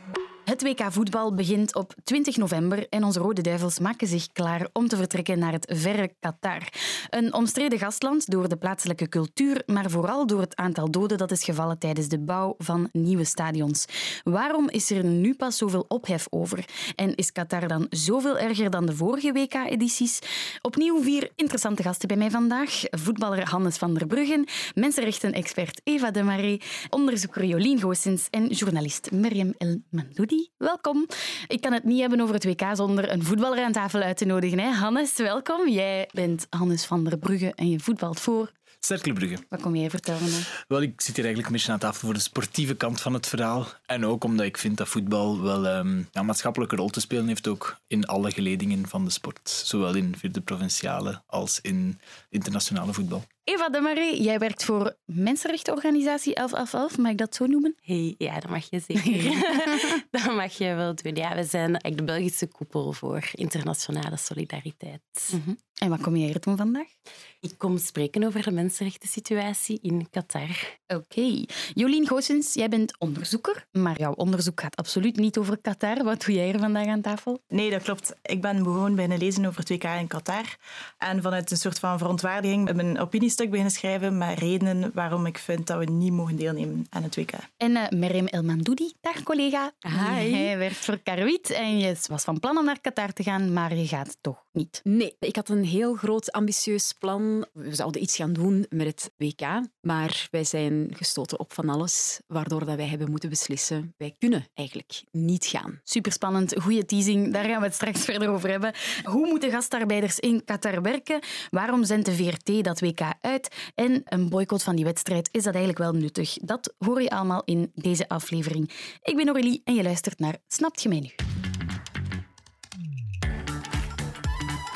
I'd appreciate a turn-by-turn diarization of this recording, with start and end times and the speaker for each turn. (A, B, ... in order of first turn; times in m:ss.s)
0:00.4-0:38.5 A
0:38.8-0:39.4 B
0:39.5-0:40.5 A
0:40.5-0:53.3 B
0:53.4-0:57.8 A
0:57.8-1:05.4 C
0:59.0-0:59.8 A
1:05.3-1:06.9 A
1:07.4-1:10.7 C
1:10.9-1:17.4 A
1:17.5-1:27.5 D
1:27.6-1:34.8 A
1:29.8-1:30.6 E
1:34.8-1:45.8 E
1:45.9-2:01.2 A